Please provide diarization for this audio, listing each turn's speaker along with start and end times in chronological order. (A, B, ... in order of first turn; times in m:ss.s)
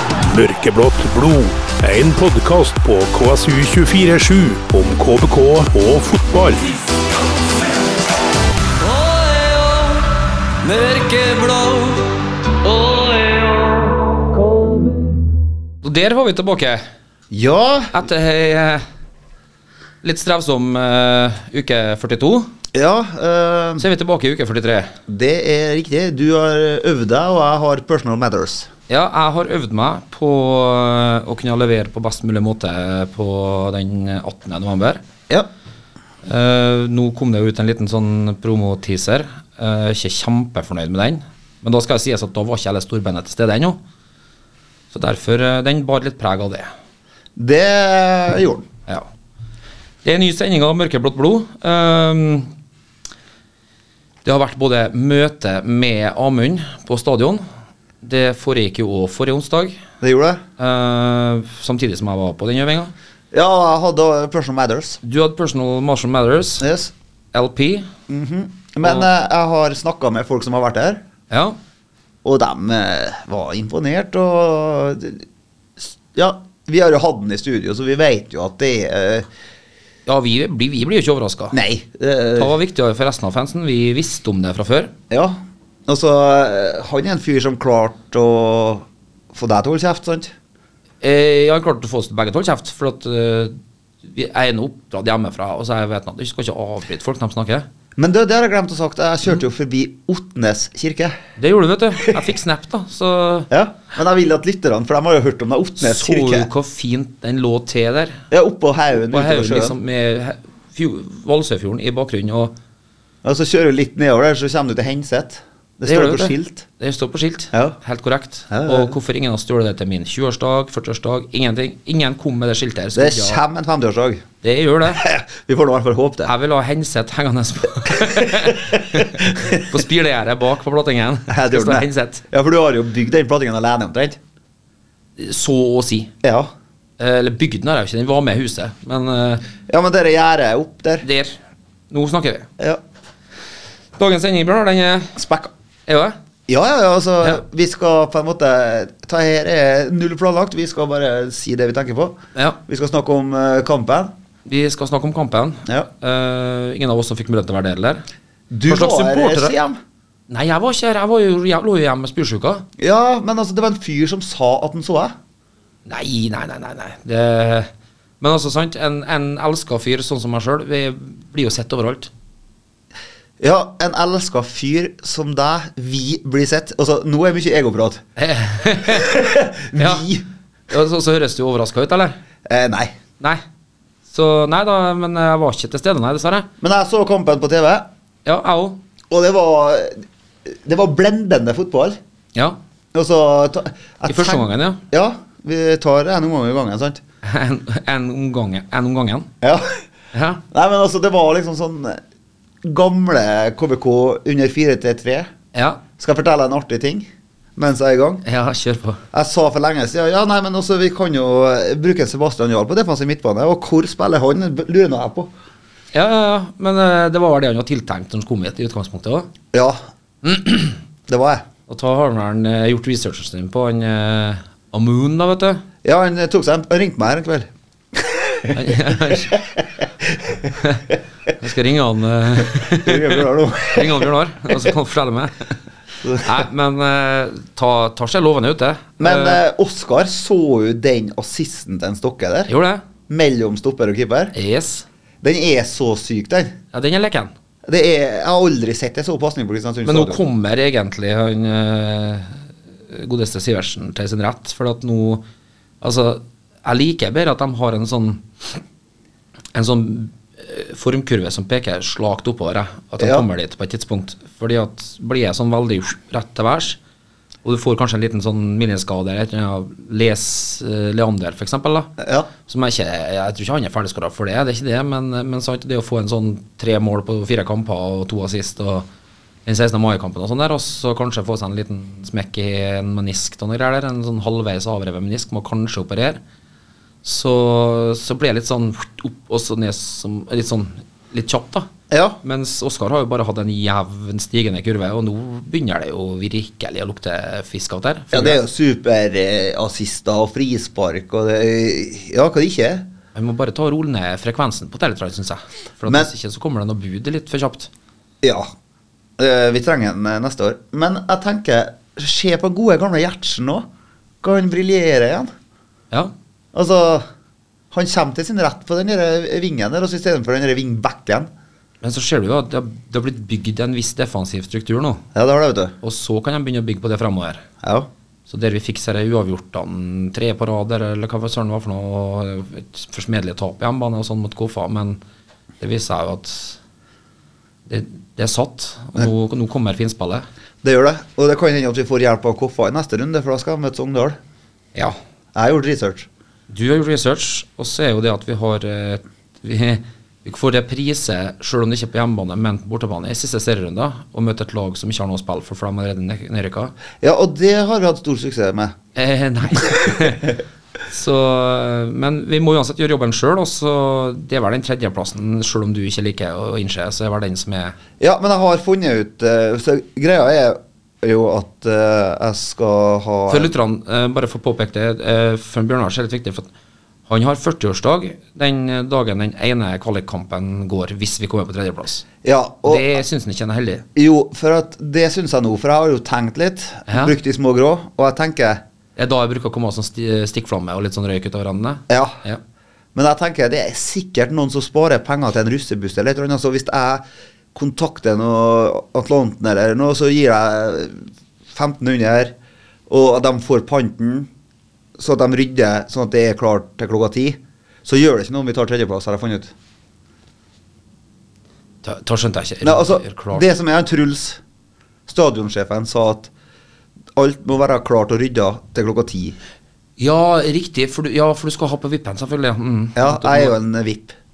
0:00.3-0:06.7 A
0:08.8-0:10.0 B
0:10.6-0:15.2 B
0:15.8-0:16.8 B
0:17.3-0:18.0 C
0:17.9-0:18.8 B
0:20.0-0:22.5 B
0:22.7-0:23.8 C
0:23.8-0:24.9 B
0:25.1-0:28.7 C
0:28.9-0:35.0 B
0:36.2-0:43.8 B
0:44.9-0:46.7 B
0:47.4-0:48.6 C
0:50.0-0:52.5 B
0:54.2-0:57.4 B
0:58.0-0:59.8 B
1:00.0-1:00.4 C
1:00.6-1:02.9 B
1:03.3-1:05.0 C
1:05.0-1:06.6 B
1:06.6-1:06.9 C
1:07.3-1:07.9 B
1:08.1-1:11.0 C
1:11.3-1:11.6 B
1:12.2-1:15.2 C
1:15.8-1:19.3 C
1:20.0-1:21.6 B
1:21.5-1:22.5 C
1:22.4-1:24.9 B
1:25.1-1:30.3 C
1:31.0-1:37.7 B
1:38.0-1:41.2 C
1:41.4-1:43.5 B
1:43.5-1:46.5 C
1:45.8-1:48.2 B
1:48.3-1:49.8 C
1:49.1-1:52.5 B
1:53.2-1:56.6 C
1:55.8-2:03.4 B
1:58.5-1:59.0 C
2:02.9-2:04.2 C
2:04.4-2:05.0 B
2:04.9-2:06.3 C
2:06.2-2:12.2 B
2:08.1-2:09.6 C
2:11.3-2:14.2 C
2:15.2-2:16.1 B
2:16.2-2:16.5 C
2:17.0-2:19.4 B
2:19.7-2:21.0 C
2:21.0-2:21.4 B
2:21.9-2:22.5 B
2:24.0-2:25.2 B
2:25.2-2:25.5 C
2:25.9-2:26.2 B
2:26.5-2:34.1 C
2:34.4-2:38.0 B
2:38.5-2:39.8 C
2:38.7-2:39.5 B
2:40.3-2:42.6 B
2:42.8-2:45.1 C
2:45.8-2:47.7 B
2:48.2-2:52.1 B
2:53.4-2:58.0 C
2:58.2-3:00.1 B
2:58.8-3:00.2 C
3:00.7-3:02.2 B
3:02.4-3:02.9 C
3:04.1-3:06.5 B
3:06.6-3:07.9 C
3:08.2-3:08.8 B
3:09.1-3:12.0 C
3:12.9-3:17.0 C
3:14.1-3:14.8 B
3:17.2-3:19.3 B
3:19.4-3:19.8 C
3:20.1-3:20.4 B
3:20.5-3:22.0 C
3:22.6-3:25.3 C
3:25.5-3:25.8 B
3:26.0-3:28.2 C
3:28.2-3:29.0 B
3:29.1-3:35.3 C
3:35.9-3:39.3 B
3:39.5-3:39.8 C
3:40.2-3:40.8 B
3:41.1-3:41.4 C
3:41.7-3:45.6 B
3:45.8-3:50.5 C
3:48.5-3:49.4 B
3:50.6-3:55.6 B
3:52.5-3:54.7 C
3:56.0-3:56.4 C
3:56.2-3:59.4 B
3:59.0-4:02.5 C
4:02.5-4:02.8 B
4:03.1-4:04.3 C
4:04.3-4:04.8 B
4:05.2-4:06.5 C
4:06.7-4:07.3 B
4:07.6-4:10.2 C
4:09.8-4:15.2 B
4:15.8-4:18.6 B
4:19.5-4:26.8 B
4:23.0-4:23.2 C
4:27.4-4:31.9 B
4:32.0-4:32.3 C
4:32.5-4:38.8 B
4:39.4-4:46.2 B
4:47.0-4:51.7 B
4:51.9-4:52.2 C
4:52.2-4:58.4 B
4:58.1-5:02.9 C
5:03.1-5:07.7 B
5:08.2-5:08.5 C
5:09.2-5:13.7 C
5:14.2-5:15.3 C
5:16.5-5:17.0 C
5:17.7-5:21.3 C
5:21.8-5:25.0 B
5:25.1-5:25.7 C
5:25.8-5:27.4 B
5:27.6-5:27.9 C
5:28.3-5:35.0 B
5:35.6-5:36.6 B
5:37.7-5:40.2 B
5:40.6-5:44.2 C
5:45.3-5:46.1 C
5:46.5-5:56.7 B
5:57.0-5:58.7 C
5:59.0-6:07.8 B
6:08.0-6:13.5 C
6:13.3-6:16.5 B
6:17.1-6:22.0 B
6:22.2-6:22.9 C
6:22.6-6:23.8 B
6:23.9-6:28.6 C
6:26.9-6:27.1 B
6:29.0-6:32.4 B
6:31.9-6:32.2 C
6:32.9-6:42.3 C
6:42.9-6:44.3 C
6:45.0-6:49.5 C
6:51.8-6:53.4 B
6:52.6-6:54.4 C
6:55.1-6:56.3 C
6:57.1-6:59.4 C
7:00.0-7:03.6 B
7:03.0-7:04.2 C